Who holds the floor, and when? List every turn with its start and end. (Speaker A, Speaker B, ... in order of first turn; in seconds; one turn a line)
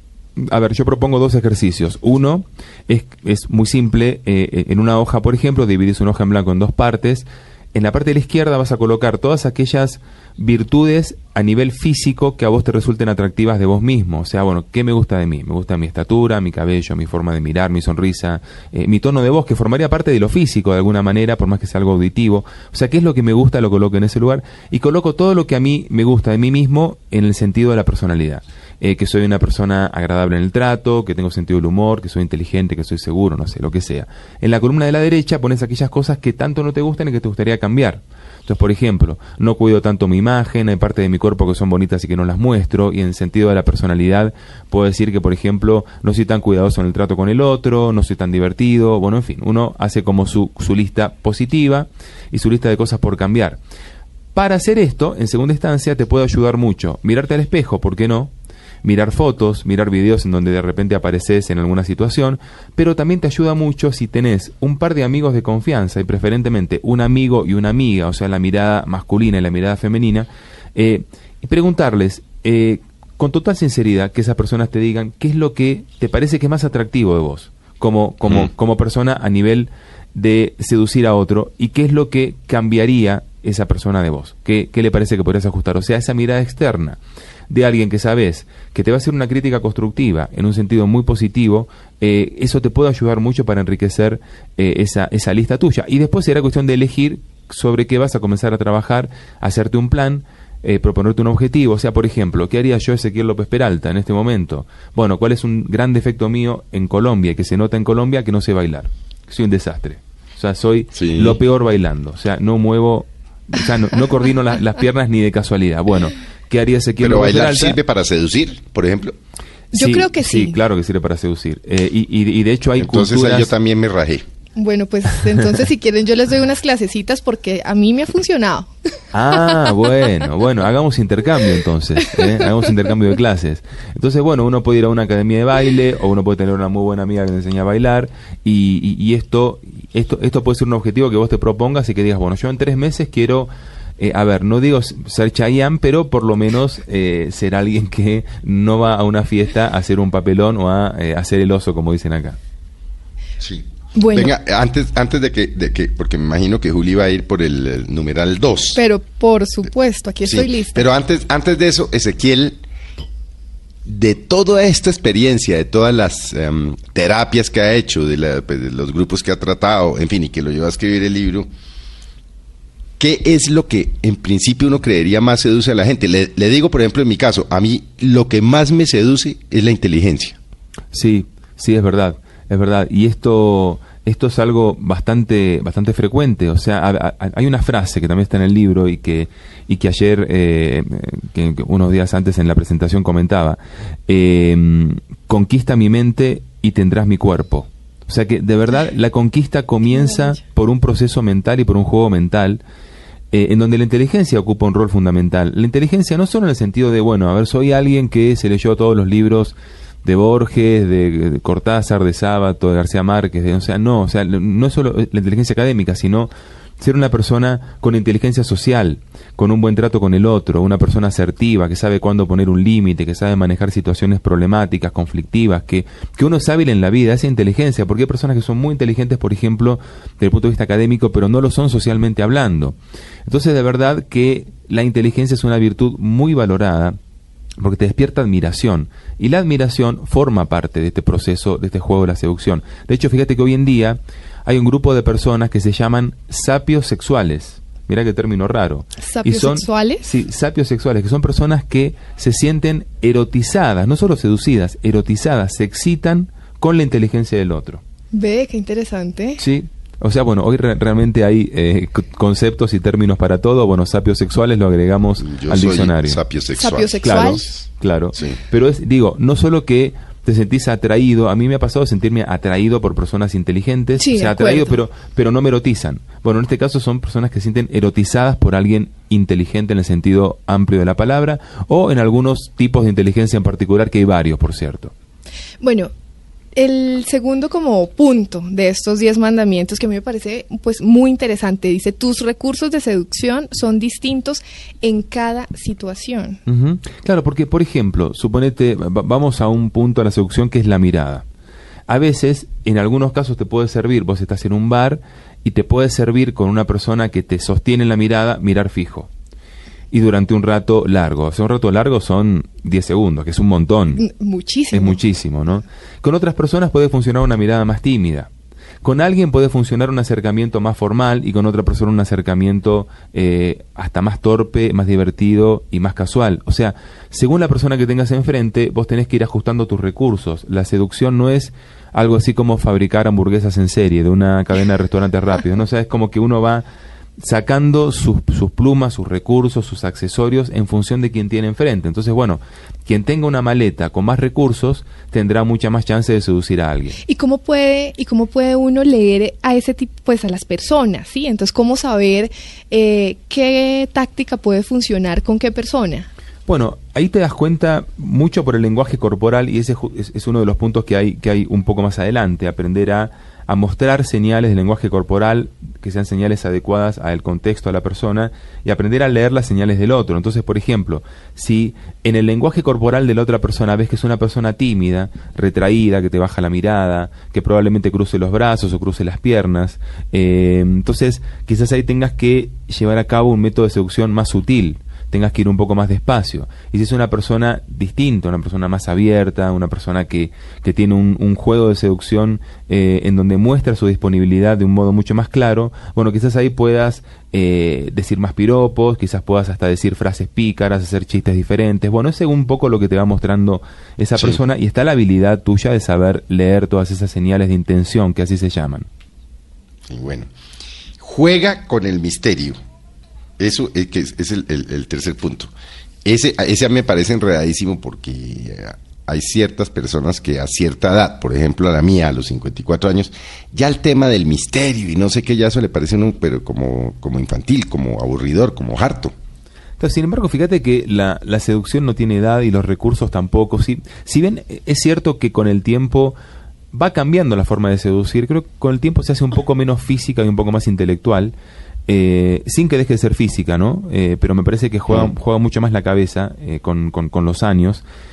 Speaker A: 0.4-53.6
Speaker A: 54.3-58.3
Speaker A: 58.8-87.0
Speaker A: 87.5-117.8
Speaker B: 110.9-111.4
Speaker B: 117.0-119.1
Speaker A: 119.7-123.5
Speaker C: 119.7-120.6
Speaker B: 122.8-124.2
Speaker C: 124.6-128.7
Speaker A: 129.1-152.4
Speaker C: 129.3-129.7
Speaker B: 153.4-158.8
Speaker C: 153.9-154.3
Speaker C: 158.7-160.8
Speaker B: 160.2-162.6
Speaker B: 163.8-171.5
Speaker B: 173.0-180.4
Speaker A: 180.9-202.6
Speaker C: 199.9-200.3
Speaker A: 203.3-232.8
Speaker A: 233.3-237.0
Speaker A: 237.6-257.8
Speaker C: 249.0-250.1
Speaker C: 258.1-259.4
Speaker A: 259.4-266.2
Speaker B: 265.2-268.4
Speaker C: 266.5-267.4
Speaker A: 267.0-284.9
Speaker C: 274.0-274.8
Speaker C: 285.6-285.9
Speaker C: 286.5-296.4
Speaker A: 296.4-301.2
Speaker A: 301.9-309.1
Speaker A: 309.9-314.0
Speaker C: 314.0-315.0
Speaker A: 314.7-318.3
Speaker A: 318.8-336.6
Speaker A: 337.2-347.0
Speaker C: 347.0-356.1
Speaker A: 356.4-408.9
Speaker B: 409.9-410.3
Speaker B: 411.0-412.6
Speaker B: 413.4-415.5
Speaker B: 416.0-429.1
Speaker A: 429.8-436.2
Speaker A: 436.7-441.3
Speaker A: 441.9-447.8